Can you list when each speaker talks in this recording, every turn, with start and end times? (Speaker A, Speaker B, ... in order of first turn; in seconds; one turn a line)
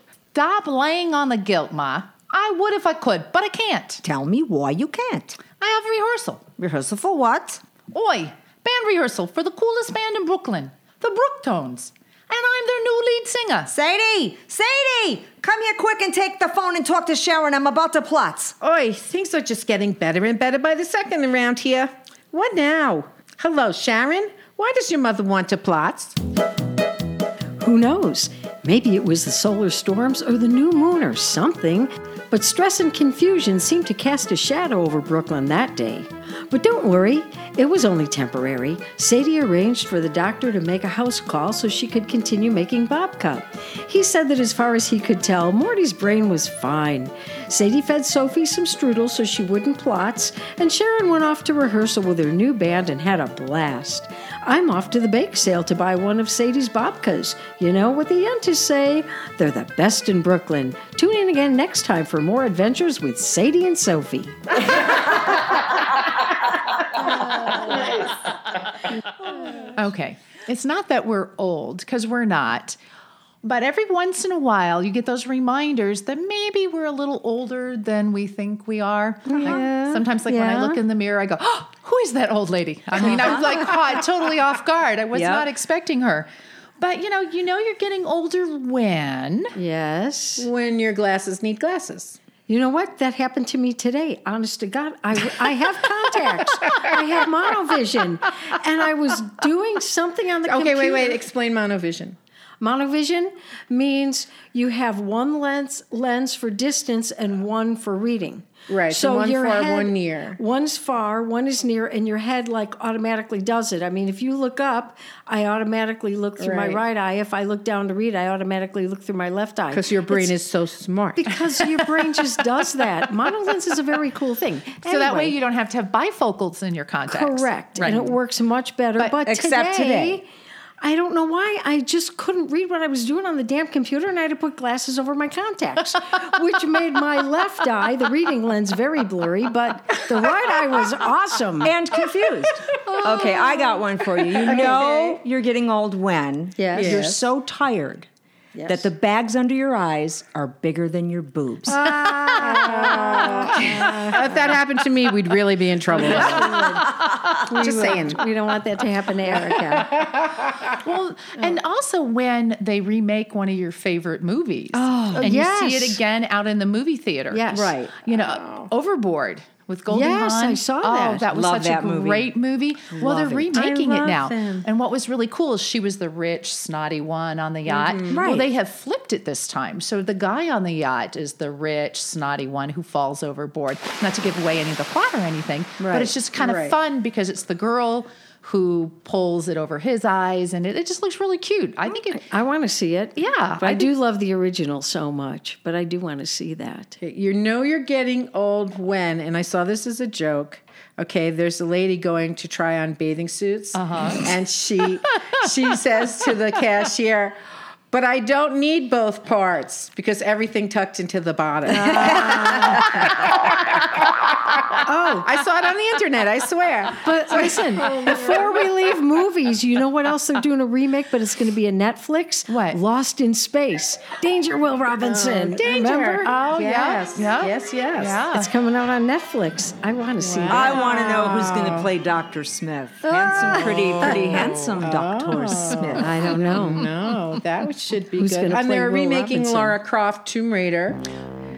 Speaker A: 0.3-4.0
Speaker B: 4.0-5.4
Speaker A: 5.5-6.5
Speaker B: 6.6-7.6
Speaker A: 7.9-13.7
Speaker B: 13.7-18.5
Speaker C: 18.6-26.2
Speaker D: 27.6-64.4
Speaker A: 67.5-68.0
Speaker A: 69.7-72.8
Speaker A: 73.4-89.5
Speaker D: 79.3-80.8
Speaker B: 79.3-79.6
Speaker B: 83.1-83.5
Speaker B: 85.1-85.5
Speaker D: 89.5-90.5
Speaker C: 90.4-92.2
Speaker D: 92.5-101.2
Speaker C: 100.4-102.2
Speaker D: 102.6-120.3
Speaker C: 108.7-110.4
Speaker C: 116.4-116.8
Speaker C: 119.7-121.3
Speaker D: 121.2-125.4
Speaker A: 124.8-128.1
Speaker D: 127.1-130.3
Speaker B: 129.2-130.2
Speaker D: 130.8-141.8
Speaker B: 141.6-148.1
Speaker D: 143.1-143.5
Speaker C: 144.4-145.2
Speaker D: 144.4-144.9
Speaker D: 146.6-147.2
Speaker C: 146.8-147.0
Speaker D: 148.5-148.9
Speaker B: 148.7-151.8
Speaker D: 151.7-154.5
Speaker C: 152.4-156.6
Speaker D: 155.9-160.1
Speaker C: 157.6-158.2
Speaker A: 160.8-167.5
Speaker D: 164.8-166.0
Speaker B: 164.8-165.3
Speaker D: 167.3-167.8
Speaker B: 167.5-168.0
Speaker A: 168.0-192.2
Speaker C: 168.1-168.7
Speaker D: 169.9-171.3
Speaker B: 171.3-172.3
Speaker D: 173.0-173.7
Speaker C: 173.0-174.7
Speaker B: 173.0-173.6
Speaker C: 177.7-178.3
Speaker B: 178.1-178.5
Speaker C: 185.8-186.8
Speaker D: 192.1-197.0
Speaker A: 193.2-193.9
Speaker C: 197.0-207.4
Speaker A: 203.7-204.3
Speaker C: 207.9-213.3
Speaker D: 211.8-212.8
Speaker D: 214.8-215.3
Speaker C: 215.2-218.7
Speaker D: 217.0-226.4
Speaker A: 222.5-222.8
Speaker C: 225.0-228.2
Speaker A: 226.2-228.5
Speaker D: 228.3-230.8
Speaker C: 230.2-231.9
Speaker B: 230.5-236.4
Speaker D: 233.1-233.7
Speaker C: 233.5-241.0
Speaker D: 235.8-237.0
Speaker D: 238.2-239.8